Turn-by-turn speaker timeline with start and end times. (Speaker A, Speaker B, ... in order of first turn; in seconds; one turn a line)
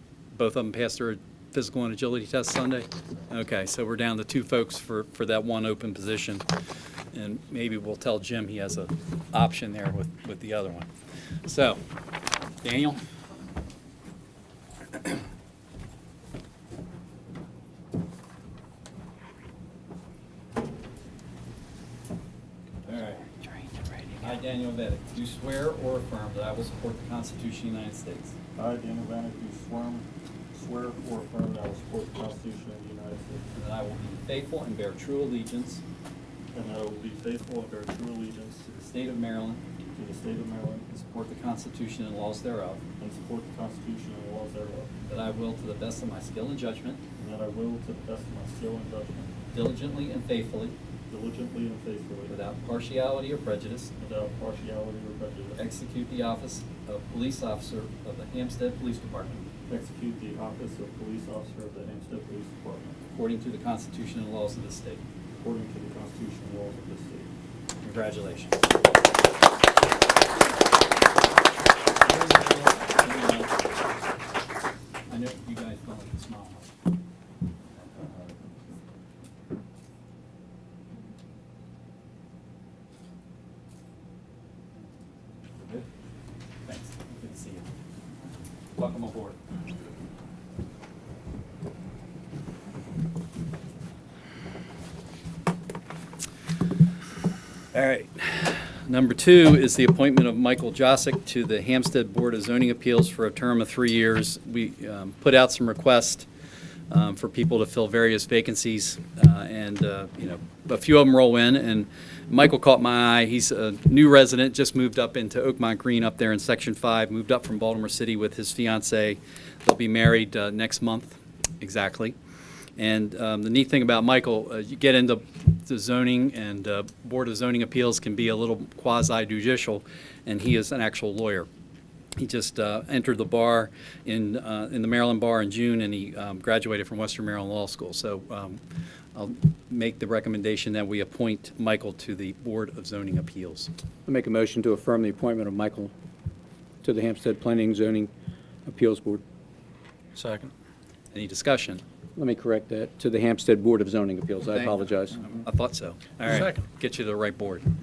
Speaker A: 0.3-6.5
Speaker A: 7.1-10.9
Speaker A: 11.4-11.8
Speaker A: 12.6-13.0
Speaker A: 22.8-23.3
Speaker A: 24.2-28.3
Speaker B: 28.6-33.5
Speaker A: 33.5-35.8
Speaker B: 36.5-38.6
Speaker A: 38.7-39.6
Speaker B: 39.9-40.9
Speaker A: 40.9-42.8
Speaker B: 43.0-44.9
Speaker A: 45.1-47.0
Speaker B: 47.2-49.3
Speaker A: 49.5-50.7
Speaker B: 51.1-52.4
Speaker A: 52.3-53.9
Speaker B: 54.0-55.6
Speaker A: 55.6-59.5
Speaker B: 59.7-63.0
Speaker A: 63.1-65.0
Speaker B: 65.3-67.3
Speaker A: 67.8-68.7
Speaker A: 72.0-73.7
Speaker A: 75.1-76.7
Speaker A: 78.0-78.3
Speaker A: 85.6-85.9
Speaker A: 86.7-87.7
Speaker A: 88.7-89.4
Speaker A: 97.7-106.3
Speaker A: 106.9-122.2
Speaker A: 122.8-131.5
Speaker A: 132.2-138.6
Speaker A: 139.2-143.7
Speaker C: 144.1-145.9
Speaker C: 146.8-148.1
Speaker C: 148.7-149.2
Speaker A: 151.1-151.8
Speaker C: 152.2-155.3
Speaker A: 154.4-157.7